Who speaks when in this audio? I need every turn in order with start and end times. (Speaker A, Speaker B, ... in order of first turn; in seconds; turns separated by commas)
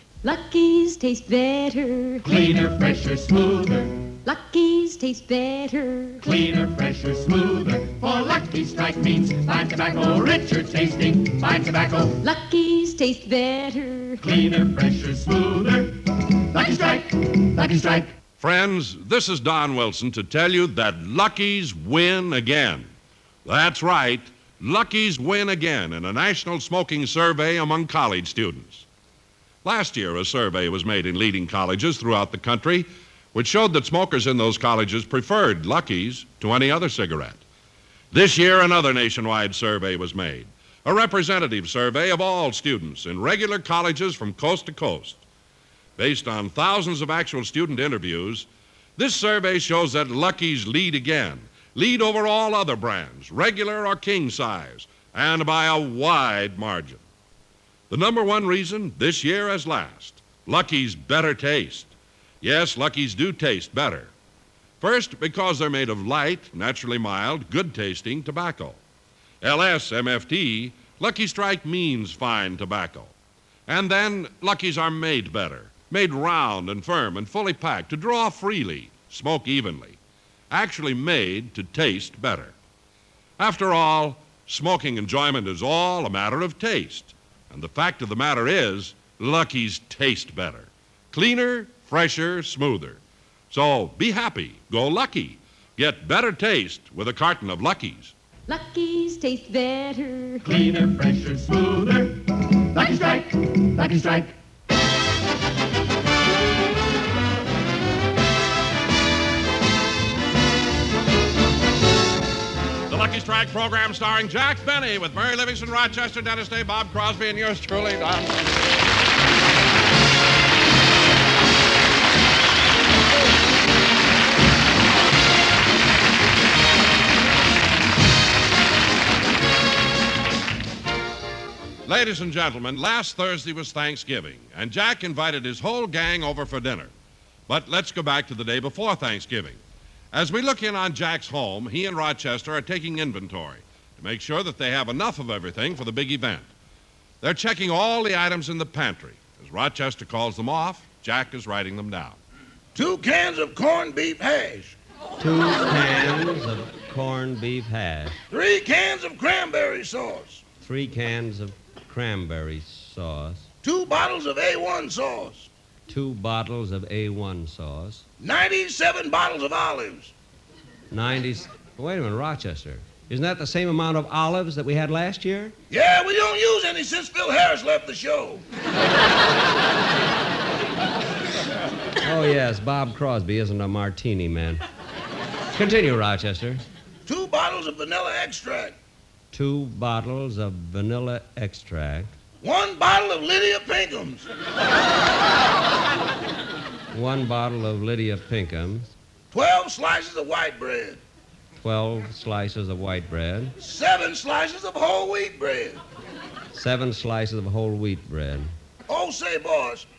Speaker A: 0.2-2.2, Speaker B: 2.2-4.2, Speaker A: 4.2-6.2, Speaker B: 6.2-12.2, Speaker A: 12.2-14.2, Speaker B: 14.2-18.1, Speaker C: 18.4-22.9, Speaker C: 23.4-28.8, Speaker C: 29.6-37.4, Speaker C: 38.1-45.2, Speaker C: 46.0-57.0, Speaker C: 57.9-61.9, Speaker C: 62.4-64.1, Speaker C: 64.8-68.8, Speaker C: 69.4-73.1, Speaker C: 73.7-80.0, Speaker C: 80.5-82.5, Speaker C: 83.4-93.0, Speaker C: 93.5-98.1, Speaker A: 98.5-100.4, Speaker B: 100.4-104.3, Speaker C: 112.9-118.5, Speaker C: 131.8-136.9, Speaker C: 137.5-139.6, Speaker C: 140.1-146.5, Speaker C: 147.2-152.2, Speaker D: 152.7-154.8, Speaker E: 155.2-158.1, Speaker D: 158.3-160.4, Speaker E: 160.6-163.4, Speaker D: 163.6-165.5, Speaker E: 165.9-168.0, Speaker D: 168.2-170.1, Speaker E: 170.9-175.5, Speaker D: 175.7-178.4, Speaker E: 182.0-184.6, Speaker E: 185.5-186.6, Speaker D: 187.1-188.7, Speaker E: 189.3-192.1, Speaker D: 192.4-194.2, Speaker E: 196.9-198.9, Speaker D: 199.3-201.0, Speaker E: 201.6-203.6, Speaker D: 203.6-205.8, Speaker E: 206.5-208.5, Speaker D: 208.9-209.8